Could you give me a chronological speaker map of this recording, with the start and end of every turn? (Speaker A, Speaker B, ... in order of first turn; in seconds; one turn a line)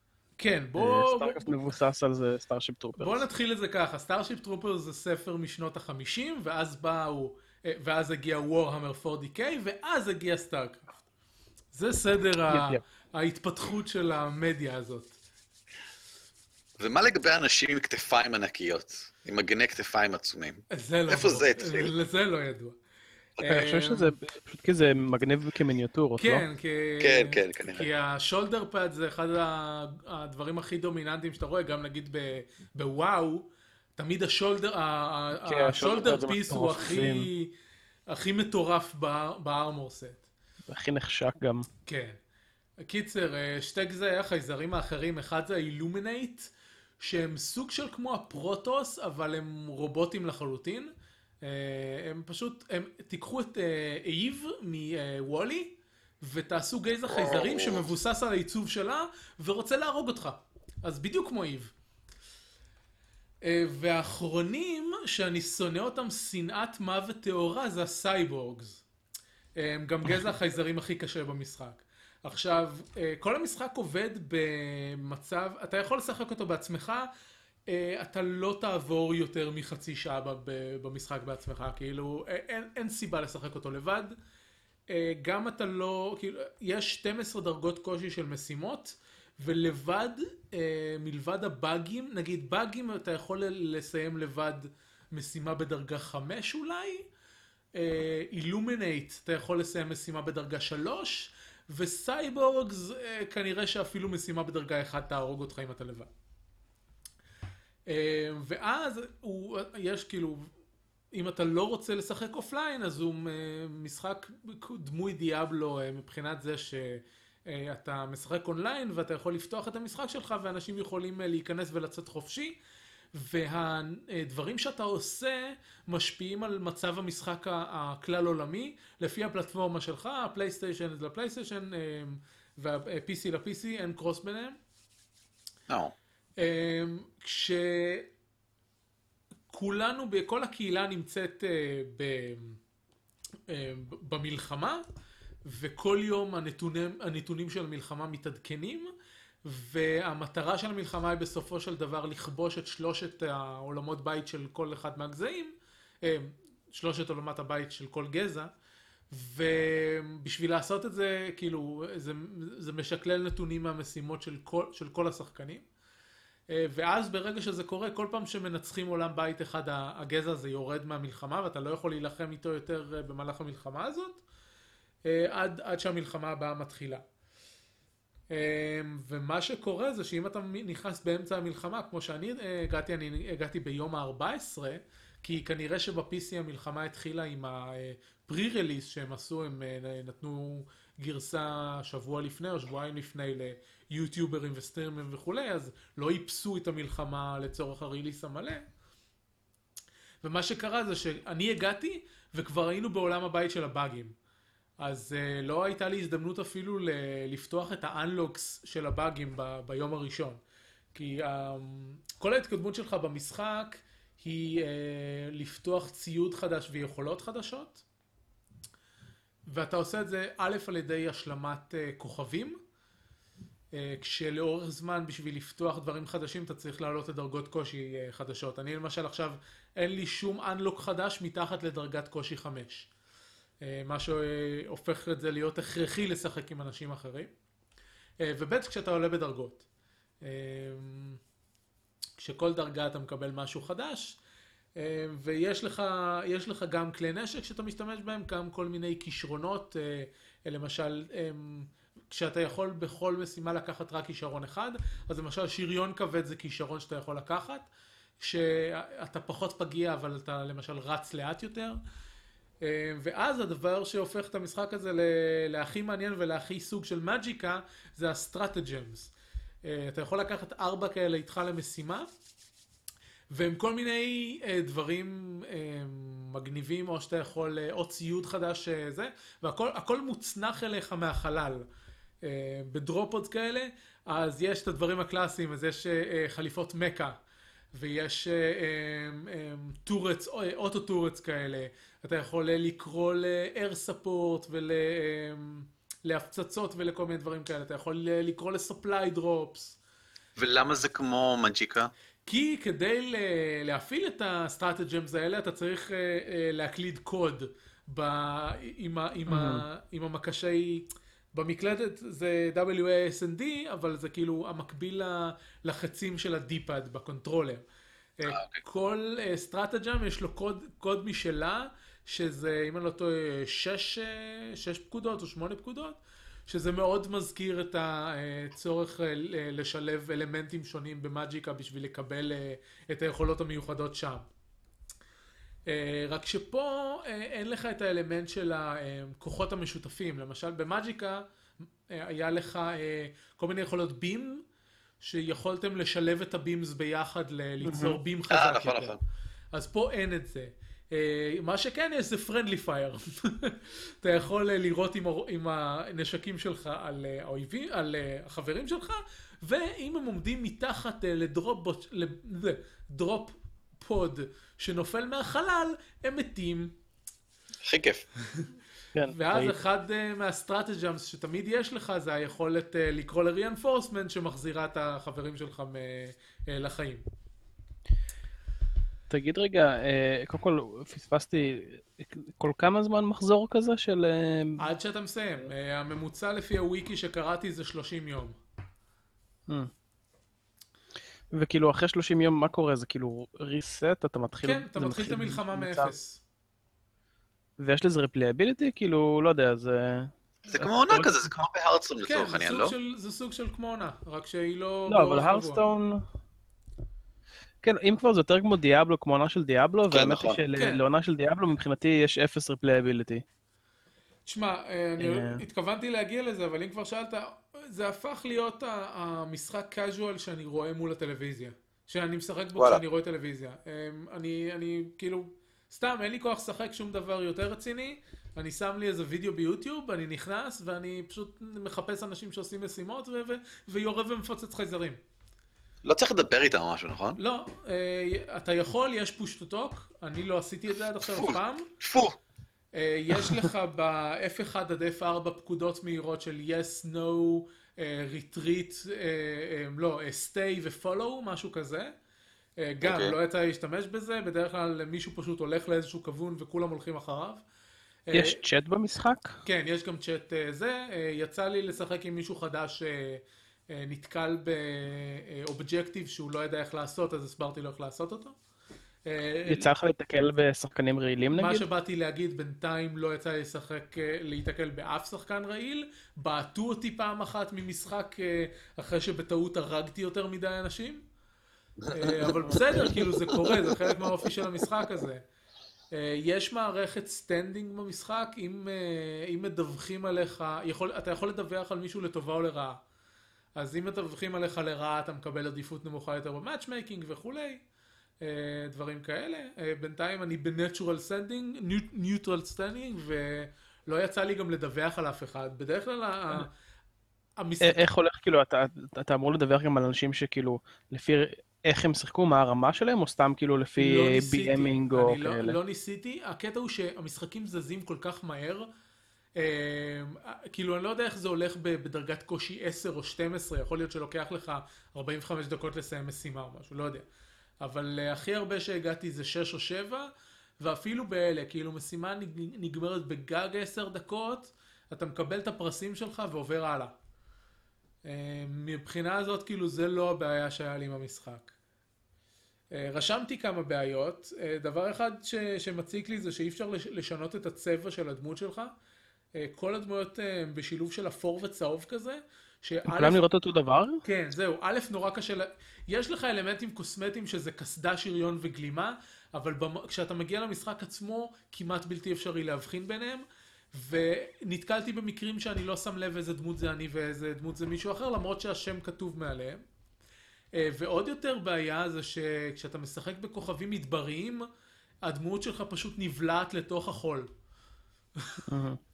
Speaker A: 0.4-1.7
Speaker B: 0.8-3.3
Speaker A: 3.0-10.9
Speaker A: 11.7-15.2
Speaker B: 12.5-12.8
Speaker C: 16.8-21.9
Speaker A: 20.7-22.8
Speaker A: 23.4-24.1
Speaker B: 23.5-26.4
Speaker A: 26.2-37.5
Speaker C: 27.0-27.9
Speaker B: 35.5-37.3
Speaker A: 38.1-40.2
Speaker B: 40.7-41.7
Speaker A: 41.9-42.2
Speaker A: 42.9-50.9
Speaker A: 51.4-61.7
Speaker C: 57.1-57.9
Speaker A: 63.4-68.8
Speaker A: 69.6-77.1
Speaker A: 77.7-84.2
Speaker A: 84.9-97.1
Speaker A: 97.8-106.1
Speaker A: 107.9-110.5
Speaker A: 111.1-122.6
Speaker A: 123.2-134.6
Speaker A: 136.4-138.1
Speaker A: 139.5-142.6
Speaker A: 143.5-144.8
Speaker A: 145.5-148.9
Speaker A: 149.4-158.5
Speaker A: 159.1-165.6
Speaker A: 166.5-174.2
Speaker A: 175.1-177.0
Speaker A: 178.3-198.7
Speaker A: 200.2-204.2
Speaker A: 204.8-210.4
Speaker A: 210.9-217.8
Speaker A: 219.5-222.6
Speaker A: 223.7-232.9
Speaker A: 233.6-237.3
Speaker A: 238.2-239.7
Speaker A: 240.2-241.2
Speaker A: 242.2-244.2
Speaker A: 244.8-257.7
Speaker A: 258.2-261.8
Speaker A: 262.6-269.1
Speaker A: 269.7-272.1
Speaker A: 273.3-281.7
Speaker A: 282.2-287.2
Speaker A: 287.7-299.8
Speaker C: 300.4-301.9
Speaker A: 302.3-317.6
Speaker B: 309.3-309.6
Speaker A: 318.2-334.3
Speaker C: 318.3-318.6
Speaker A: 335.7-341.2
Speaker A: 341.9-344.4
Speaker A: 345.0-349.0
Speaker B: 347.6-348.0
Speaker C: 348.3-349.0
Speaker A: 349.5-366.8
Speaker C: 367.6-368.1
Speaker B: 368.9-369.6
Speaker A: 369.1-377.0
Speaker B: 379.1-384.6
Speaker A: 384.6-388.4
Speaker B: 391.3-395.9
Speaker A: 394.4-396.2
Speaker B: 397.6-401.4
Speaker C: 400.5-402.7
Speaker A: 402.0-405.6
Speaker B: 404.9-406.1
Speaker B: 407.6-413.2
Speaker C: 409.9-410.4
Speaker A: 410.6-410.8
Speaker A: 414.3-435.0
Speaker B: 415.0-415.4
Speaker C: 422.6-422.8
Speaker C: 435.8-437.2
Speaker A: 437.2-441.7
Speaker C: 441.1-442.2
Speaker A: 442.8-451.9
Speaker A: 452.6-457.4
Speaker C: 452.8-453.2
Speaker A: 458.1-458.4
Speaker B: 458.1-459.4
Speaker A: 459.4-468.3
Speaker A: 469.1-469.7
Speaker B: 469.5-471.7
Speaker A: 471.3-481.0
Speaker C: 481.8-484.1
Speaker A: 481.9-485.2
Speaker A: 485.9-492.8
Speaker A: 493.6-497.6
Speaker A: 498.2-506.5
Speaker A: 507.4-507.9
Speaker B: 507.6-515.6
Speaker A: 513.8-518.7
Speaker A: 519.4-527.1
Speaker A: 527.6-530.1
Speaker A: 530.6-536.9
Speaker A: 538.1-541.5
Speaker A: 542.7-548.7
Speaker A: 549.4-553.3
Speaker B: 552.9-554.0
Speaker A: 554.0-569.6
Speaker A: 570.6-574.5
Speaker A: 575.0-577.3
Speaker B: 578.5-578.8